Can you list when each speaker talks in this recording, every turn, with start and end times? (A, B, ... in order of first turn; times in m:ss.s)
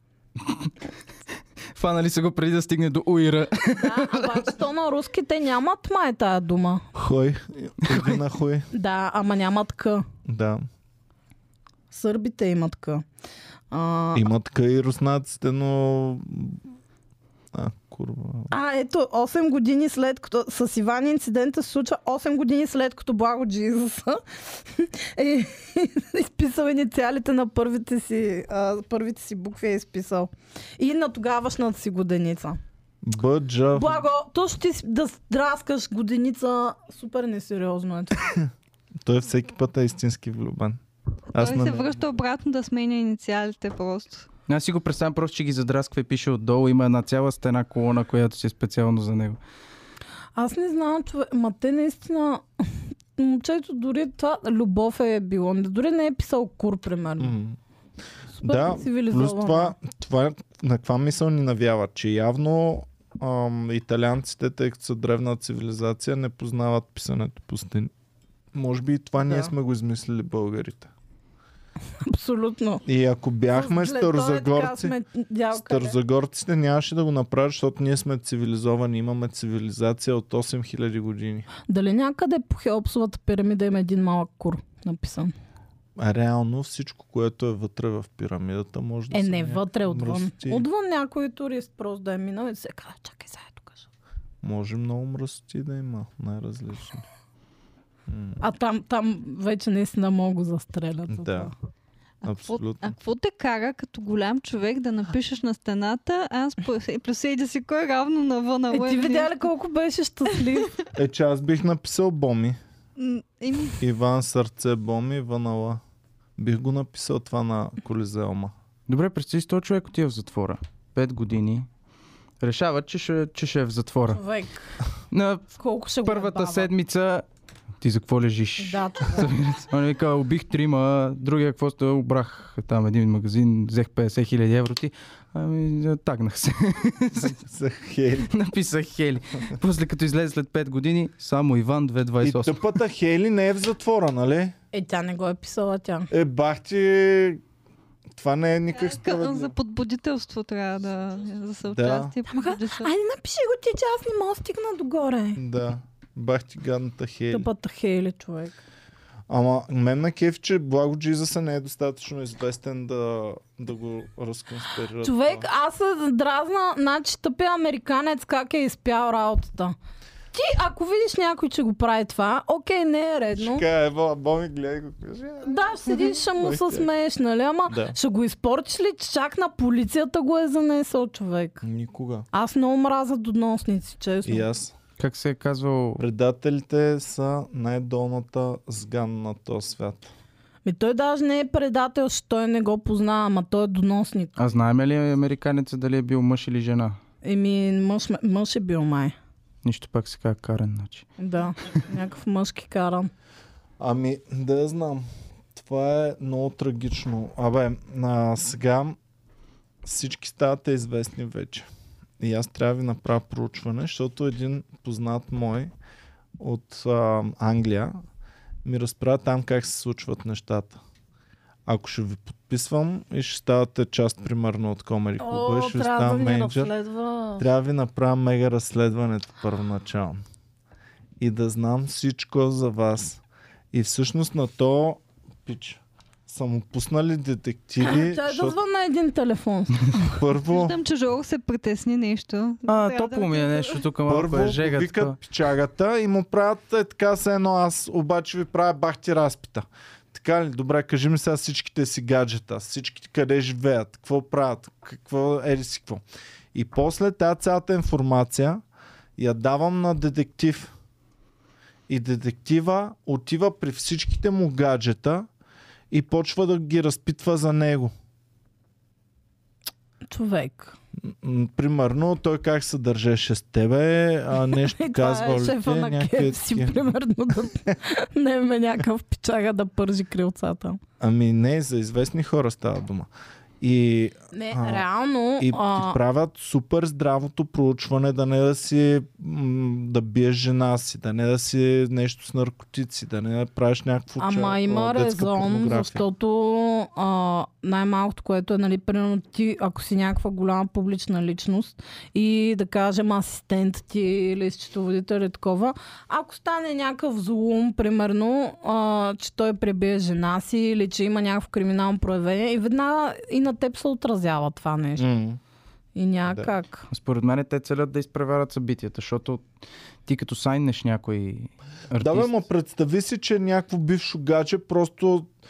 0:01.7-0:04.5 A
0:03.8-0:06.8 B
0:06.9-0:08.7 C
0:08.7-0:10.0 B
0:10.2-0:10.6 C
0:11.9-0:13.0 B
0:13.7-0:14.3 B
0:14.1-0:16.6 C
0:17.5-0:18.5 C
0:18.5-0:32.6 B
0:33.0-0:34.0 C
0:33.7-0:38.3 B
0:39.0-0:40.8 C
0:41.3-0:42.0 C
0:41.3-0:44.3 D
0:44.5-0:49.4 A
0:50.4-0:52.4 B
0:53.2-0:57.3 B
0:57.2-0:57.6 C
0:58.4-0:59.7 B
0:58.4-1:07.9 C
1:08.5-1:10.9 C
1:09.2-1:09.5 B
1:12.0-1:12.8 B
1:12.8-1:14.9 C
1:13.5-1:16.0 B
1:15.5-1:21.5 C
1:21.7-1:25.3 B
1:26.0-1:30.6 C
1:29.1-1:33.9 B
1:34.4-1:37.0 C
1:38.1-1:38.4 C
1:38.4-1:41.5 B
1:41.1-1:41.5 C
1:42.2-1:49.4 D
1:42.2-1:42.9 C
1:48.7-1:50.7 B
1:50.9-1:52.6 C
1:53.0-1:53.8 D
1:53.8-1:55.8 C
1:56.4-1:58.5 C
1:58.9-2:01.7 A
2:02.4-2:04.2 A
2:04.1-2:04.6 B
2:05.1-2:07.2 A
2:05.6-2:06.7 B
2:07.8-2:17.4 A
2:08.6-2:09.3 B
2:17.2-2:18.3 C
2:18.3-2:22.6 A
2:22.2-2:24.5 C
2:24.7-2:26.1 B
2:26.1-2:27.4 C
2:28.1-2:29.5 C
2:28.7-2:32.9 D
2:31.7-2:32.1 C
2:32.3-2:35.4 B
2:35.4-2:37.5 C
2:37.3-2:38.6 B
2:39.3-2:45.5 C
2:45.0-2:49.7 B
2:50.3-2:53.6 B
2:53.3-2:56.9 C
2:55.4-3:01.6 B
2:57.7-2:58.0 C
3:01.6-3:02.3 C
3:02.3-3:04.5 B
3:04.2-3:04.7 C
3:05.0-3:06.0 A
3:06.0-3:10.1 C
3:10.6-3:14.4 B
3:14.4-3:17.0 A
3:17.2-3:19.1 B
3:19.6-3:21.0 A
3:21.2-3:23.1 B
3:23.8-3:29.0 C
3:29.8-3:31.7 C
3:32.2-3:35.7 C
3:36.4-3:38.0 C
3:38.6-3:40.8 C
3:41.6-3:46.7 C
3:45.2-3:47.5 B
3:47.4-3:50.2 C
3:51.2-3:53.2 C
3:53.7-3:58.6 C
3:57.8-4:00.2 B
4:00.2-4:00.8 C
4:00.4-4:03.8 D
4:02.7-4:05.2 A
4:04.1-4:18.6 C
4:19.2-4:20.7 C
4:21.9-4:25.3 C
4:25.9-4:27.9 C
4:30.1-4:30.8 B
4:31.0-4:36.9 C
4:34.4-4:40.8 B
4:41.0-4:43.1 C
4:43.6-4:44.8 C
4:44.3-4:46.0 B
4:45.4-4:56.0 C
4:54.2-5:15.0 B
5:15.0-5:15.4 C
5:16.0-5:16.9 B
5:16.9-5:19.4 A
5:20.0-5:22.3 A
5:22.0-5:25.3 C